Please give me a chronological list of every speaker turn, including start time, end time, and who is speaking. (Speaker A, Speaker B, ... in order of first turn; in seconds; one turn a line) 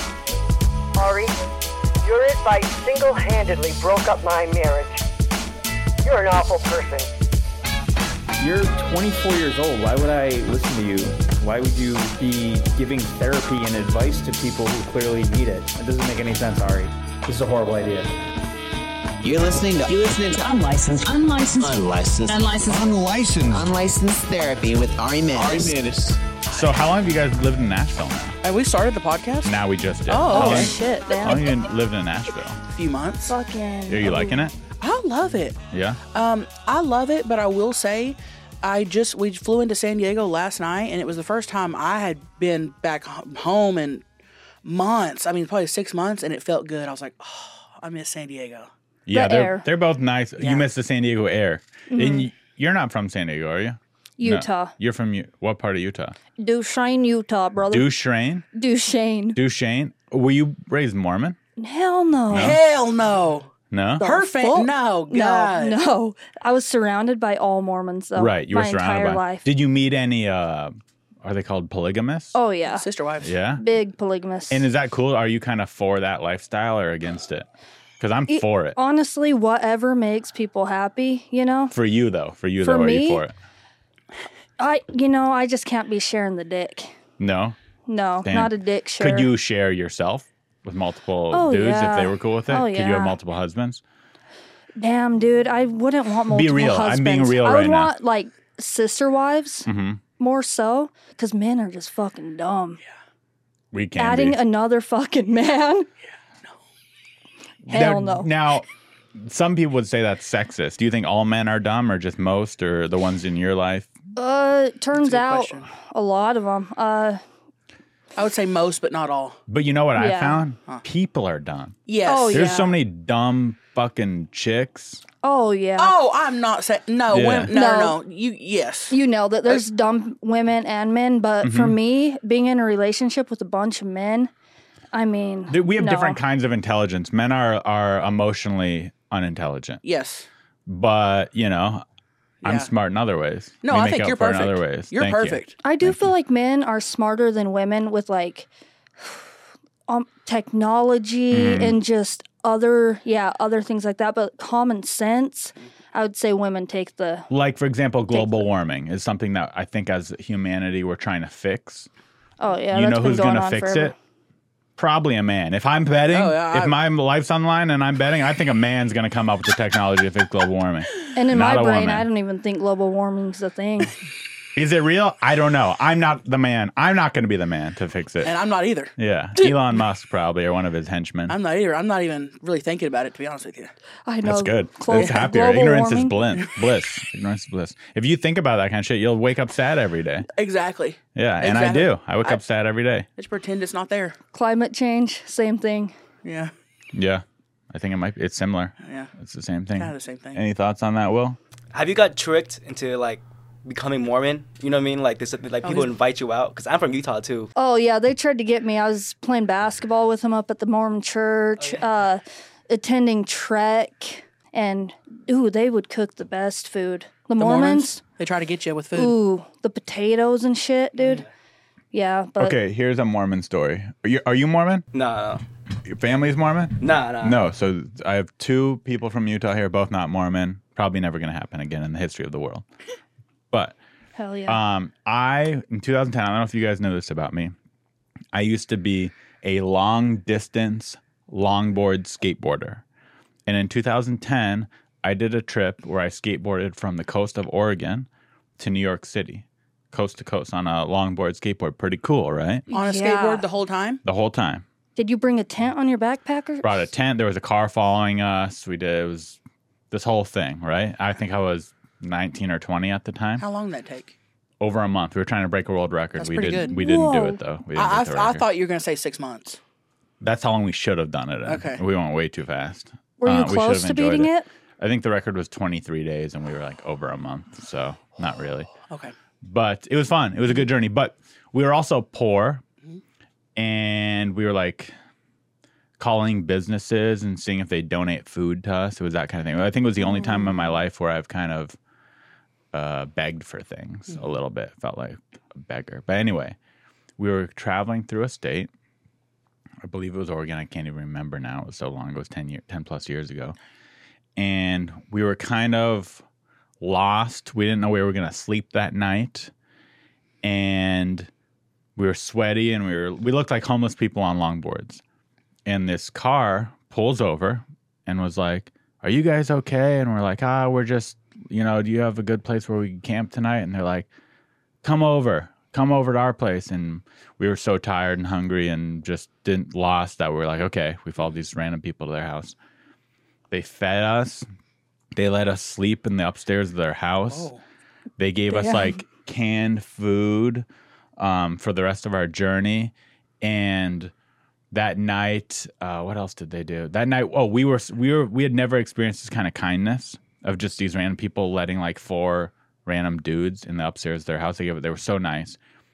Speaker A: 0.9-1.3
Speaker A: 2.0-5.0
Speaker A: 6.0-7.1
Speaker B: 8.4-18.1
Speaker C: 19.2-20.5
Speaker D: 20.2-22.9
Speaker C: 21.6-26.2
Speaker E: 26.5-28.4
Speaker F: 28.4-29.5
Speaker E: 29.4-32.6
Speaker F: 30.1-30.8
Speaker G: 30.3-31.5
Speaker F: 32.7-33.3
Speaker G: 33.2-34.5
Speaker E: 33.9-34.5
Speaker F: 34.7-35.6
Speaker E: 35.7-36.0
Speaker F: 36.1-44.0
Speaker F: 44.6-48.7
Speaker E: 49.0-56.1
Speaker G: 49.1-49.7
Speaker F: 50.4-50.6
Speaker G: 51.9-52.3
Speaker G: 54.2-54.7
Speaker G: 56.4-57.9
Speaker E: 57.7-58.4
Speaker G: 58.5-59.4
Speaker E: 59.3-61.4
Speaker G: 61.6-62.6
Speaker E: 62.3-62.6
Speaker F: 62.3-65.8
Speaker E: 63.7-64.1
Speaker G: 64.0-69.4
Speaker E: 68.2-72.3
Speaker G: 72.3-72.8
Speaker F: 72.7-73.3
Speaker E: 73.2-73.6
Speaker G: 73.6-74.7
Speaker E: 74.5-77.5
Speaker E: 78.0-78.8
Speaker G: 78.3-81.7
Speaker E: 81.7-83.3
Speaker G: 82.6-83.2
Speaker G: 84.6-86.9
Speaker E: 87.2-87.6
Speaker G: 87.9-89.3
Speaker E: 88.2-93.8
Speaker G: 91.3-93.2
Speaker G: 94.8-102.8
Speaker E: 96.3-97.9
Speaker E: 99.7-100.0
Speaker E: 103.7-104.4
Speaker G: 104.0-105.9
Speaker G: 107.7-108.3
Speaker E: 107.7-113.9
Speaker G: 114.2-117.2
Speaker F: 114.9-115.7
Speaker F: 118.2-119.4
Speaker E: 119.5-121.8
Speaker G: 119.9-120.4
Speaker F: 121.9-122.5
Speaker G: 122.0-122.7
Speaker E: 122.3-125.0
Speaker G: 125.2-125.9
Speaker F: 125.8-129.6
Speaker E: 127.1-127.5
Speaker G: 127.5-128.0
Speaker G: 128.9-134.3
Speaker E: 131.4-131.8
Speaker G: 134.9-136.2
Speaker E: 135.5-139.8
Speaker F: 139.8-140.3
Speaker E: 140.7-141.8
Speaker F: 142.4-142.7
Speaker E: 142.4-146.0
Speaker F: 143.6-145.5
Speaker G: 145.6-148.5
Speaker G: 149.9-157.3
Speaker E: 151.3-151.8
Speaker E: 157.3-161.9
Speaker G: 158.1-158.4
Speaker G: 162.4-163.9
Speaker E: 162.7-163.9
Speaker E: 164.8-172.1
Speaker F: 166.1-166.7
Speaker G: 171.1-173.9
Speaker E: 174.5-178.3
Speaker F: 178.2-178.9
Speaker E: 178.9-181.4
Speaker F: 181.3-183.7
Speaker G: 184.1-186.2
Speaker E: 184.2-190.3
Speaker F: 184.9-185.2
Speaker F: 190.3-192.4
Speaker E: 191.1-193.1
Speaker F: 193.2-194.2
Speaker G: 194.3-195.9
Speaker F: 196.2-196.5
Speaker E: 196.9-201.4
Speaker F: 198.8-199.1
Speaker F: 199.7-200.4
Speaker H: 201.7-207.5
Speaker F: 205.6-205.9
Speaker G: 207.6-218.0
Speaker H: 211.6-211.8
Speaker F: 217.4-219.2
Speaker G: 218.9-221.2
Speaker H: 221.0-221.3
Speaker G: 221.9-222.6
Speaker E: 222.4-224.8
Speaker H: 224.9-225.4
Speaker E: 225.8-232.6
Speaker H: 226.8-227.4
Speaker G: 234.2-234.6
Speaker E: 234.5-237.5
Speaker E: 238.3-242.8
Speaker E: 243.5-252.6
Speaker G: 252.7-253.4
Speaker F: 252.7-254.0
Speaker E: 254.0-254.6
Speaker G: 254.9-256.7
Speaker E: 256.6-259.4
Speaker E: 259.9-263.4
Speaker F: 263.4-264.1
Speaker E: 264.6-268.4
Speaker F: 266.2-266.8
Speaker G: 266.7-267.4
Speaker F: 267.7-269.6
Speaker E: 270.2-278.7
Speaker F: 271.4-271.8
Speaker G: 273.2-274.4
Speaker F: 278.8-279.1
Speaker E: 279.4-282.6
Speaker E: 283.6-284.9
Speaker E: 286.0-291.8
Speaker E: 292.7-296.6
Speaker E: 297.2-298.7
Speaker E: 299.8-303.6
Speaker E: 304.4-306.2
Speaker E: 306.8-309.5
Speaker E: 310.4-311.3
Speaker E: 311.9-315.0
Speaker E: 315.6-324.1
Speaker E: 324.8-332.6
Speaker E: 333.5-334.5
Speaker E: 335.1-337.5
Speaker F: 337.3-337.6
Speaker E: 338.2-340.6
Speaker G: 338.5-338.9
Speaker E: 341.2-344.1
Speaker E: 344.7-355.6